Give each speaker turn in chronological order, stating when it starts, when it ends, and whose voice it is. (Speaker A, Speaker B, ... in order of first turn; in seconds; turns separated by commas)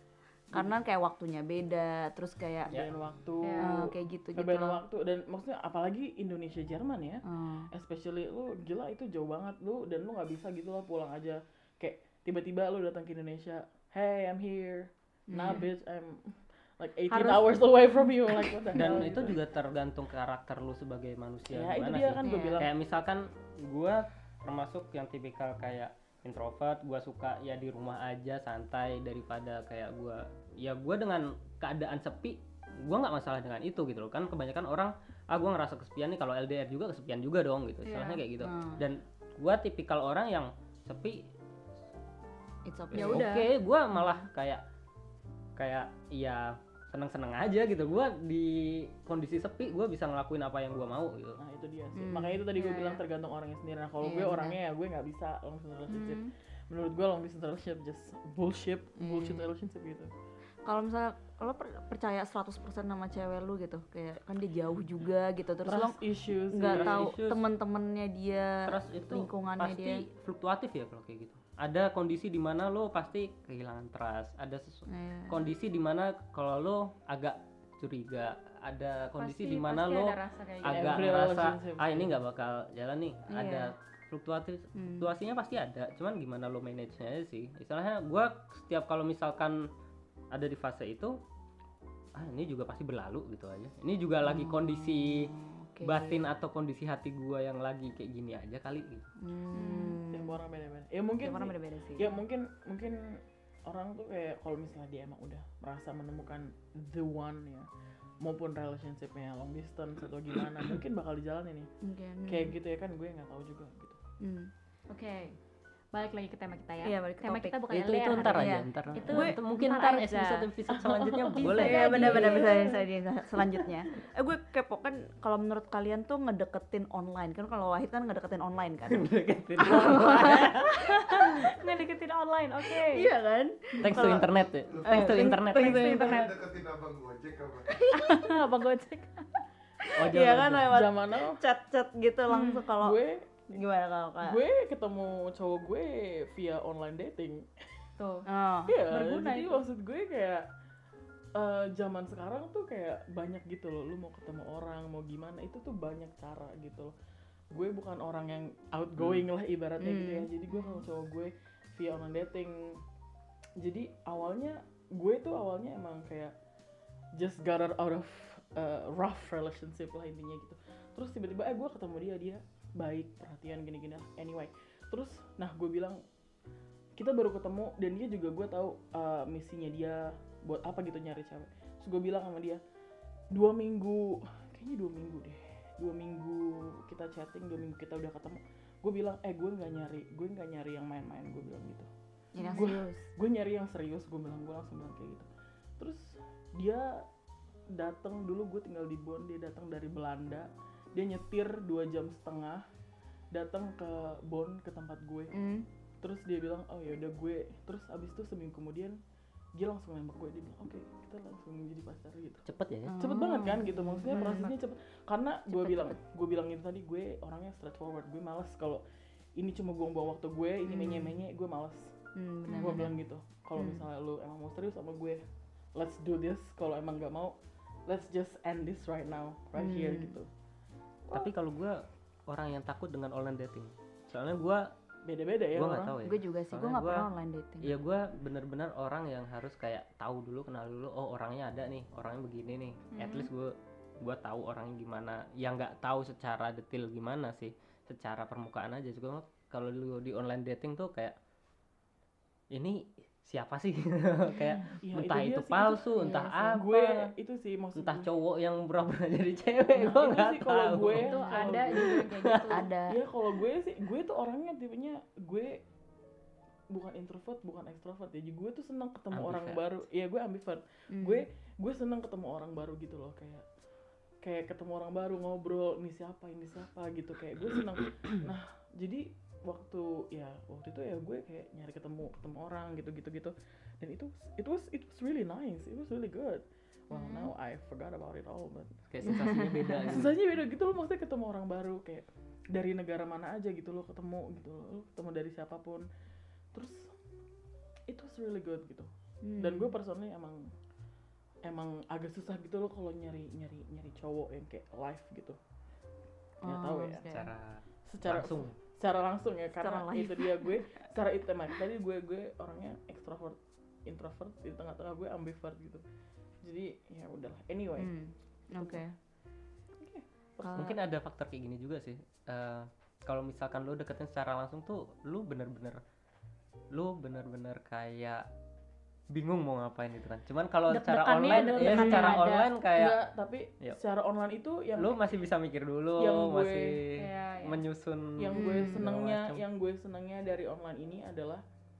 Speaker A: 0.5-2.8, Speaker B: 0.5-0.8, Speaker B: 2.7-19.4, Speaker C: 3.4-3.7, Speaker A: 3.6-4.8, Speaker A: 7.3-7.7, Speaker A: 15.3-15.6, Speaker C: 17.1-17.7, Speaker D: 18.7-41.3, Speaker B: 21.5-22.7, Speaker A: 22.2-22.6, Speaker C: 37.8-38.2, Speaker A: 38.4-38.8, Speaker A: 42.6-43.3, Speaker D: 42.9-44.6, Speaker C: 42.9-43.5, Speaker D: 45.6-51.4, Speaker B: 51.4-60.1, Speaker A: 51.9-52.5, Speaker C: 52.5-53.0, Speaker A: 54.0-54.6, Speaker C: 55.9-56.3, Speaker A: 59.0-59.5, Speaker A: 60.6-66.0, Speaker B: 65.6-67.1, Speaker A: 66.5-70.0, Speaker D: 66.6-67.4, Speaker D: 68.7-89.6, Speaker A: 74.9-75.4, Speaker C: 79.2-81.0, Speaker B: 80.6-82.2, Speaker A: 83.3-83.7, Speaker A: 84.8-85.1, Speaker D: 90.3-91.2, Speaker D: 92.2-95.3, Speaker A: 94.2-96.2, Speaker D: 95.8-99.0, Speaker A: 99.2-100.4, Speaker C: 99.5-100.0, Speaker B: 100.1-107.7, Speaker A: 101.2-102.1, Speaker B: 108.2-111.7, Speaker A: 111.8-112.5, Speaker B: 112.2-114.0, Speaker A: 114.2-114.5, Speaker C: 114.9-115.3, Speaker C: 115.9-120.5, Speaker A: 116.8-119.3, Speaker D: 117.7-122.4, Speaker B: 120.7-122.6, Speaker C: 121.4-122.7, Speaker A: 121.5-131.5, Speaker D: 128.9-130.8, Speaker C: 131.0-133.1, Speaker A: 132.8-134.3, Speaker D: 133.8-135.9, Speaker E: 134.7-135.0, Speaker A: 134.8-136.3, Speaker C: 135.5-136.3, Speaker E: 135.7-137.7, Speaker A: 137.8-138.3, Speaker C: 137.9-139.2, Speaker D: 139.9-140.7, Speaker A: 140.0-143.0, Speaker B: 140.7-141.4, Speaker C: 142.3-142.6, Speaker B: 142.8-143.3, Speaker A: 143.5-144.4, Speaker B: 144.2-147.5, Speaker C: 148.0-148.2, Speaker A: 148.2-148.8, Speaker B: 148.7-150.5, Speaker C: 148.9-149.6, Speaker B: 151.3-156.9, Speaker B: 157.5-162.8, Speaker D: 159.0-159.2, Speaker A: 159.8-160.8, Speaker B: 163.6-166.3, Speaker B: 167.2-176.0, Speaker B: 176.9-182.6, Speaker B: 183.3-191.9, Speaker A: 192.3-193.1, Speaker B: 192.5-195.3, Speaker B: 195.8-197.1, Speaker B: 197.7-202.6, Speaker B: 203.3-205.3, Speaker A: 205.3-205.7, Speaker B: 206.0-209.0, Speaker B: 209.6-212.4, Speaker D: 212.5-212.9, Speaker A: 212.9-214.5, Speaker B: 212.9-218.8, Speaker A: 215.5-216.0, Speaker B: 219.4-221.9, Speaker A: 220.7-221.2, Speaker A: 222.2-223.0, Speaker B: 222.5-225.2, Speaker A: 223.6-223.8, Speaker B: 225.7-227.3, Speaker B: 227.9-230.3, Speaker A: 229.5-230.1, Speaker D: 231.1-234.6, Speaker B: 235.0-236.0, Speaker D: 235.5-237.1, Speaker A: 236.0-237.8, Speaker D: 237.6-251.1, Speaker C: 242.9-243.3, Speaker D: 252.5-257.1, Speaker B: 254.8-258.1, Speaker D: 257.8-261.2, Speaker B: 259.8-262.0, Speaker C: 261.0-262.7, Speaker D: 261.8-262.2, Speaker A: 262.5-263.0, Speaker B: 262.9-265.6, Speaker B: 266.7-273.4, Speaker D: 269.1-269.6, Speaker A: 270.9-271.2, Speaker B: 274.2-295.9, Speaker A: 286.9-287.3, Speaker D: 288.9-290.1, Speaker A: 289.1-289.4, Speaker B: 296.5-296.9, Speaker B: 297.9-300.4, Speaker A: 299.2-299.7, Speaker B: 301.4-305.4, Speaker A: 306.4-307.3, Speaker B: 306.4-307.0, Speaker D: 307.1-308.5, Speaker B: 307.9-315.8, Speaker A: 309.6-310.5, Speaker B: 316.4-317.9, Speaker A: 317.8-318.9, Speaker B: 318.5-318.9, Speaker B: 319.8-320.8, Speaker A: 320.4-320.8, Speaker D: 320.6-325.8, Speaker D: 326.7-328.3, Speaker D: 329.1-333.0, Speaker C: 330.7-332.5, Speaker B: 331.3-335.0, Speaker D: 334.8-339.4, Speaker B: 336.0-336.8, Speaker C: 337.0-337.6, Speaker B: 338.2-341.4, Speaker A: 338.3-338.8